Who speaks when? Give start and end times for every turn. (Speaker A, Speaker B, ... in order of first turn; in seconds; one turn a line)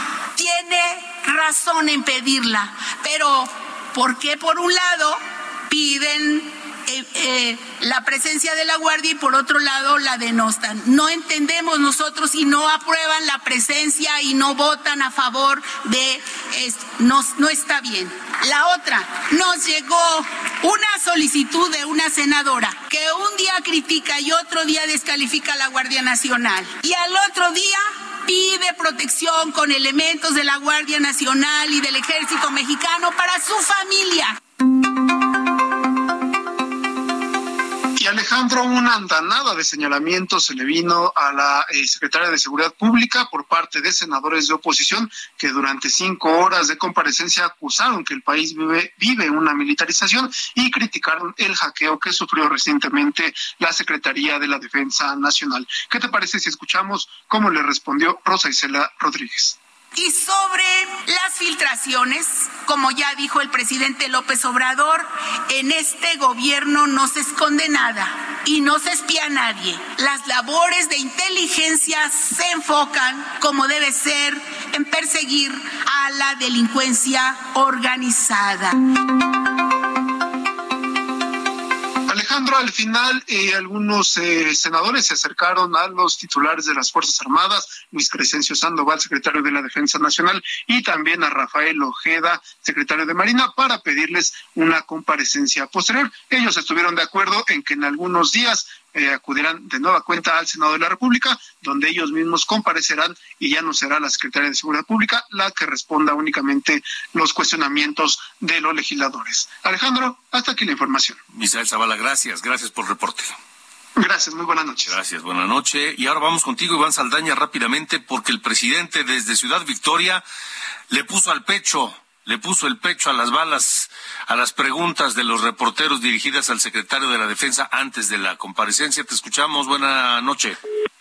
Speaker A: 0.4-34.4
Speaker B: 38.0-59.6
Speaker A: 60.0-78.8
Speaker B: 82.1-111.2
Speaker C: 111.3-113.3
Speaker B: 114.0-115.0
Speaker C: 114.9-120.2
Speaker C: 120.9-130.6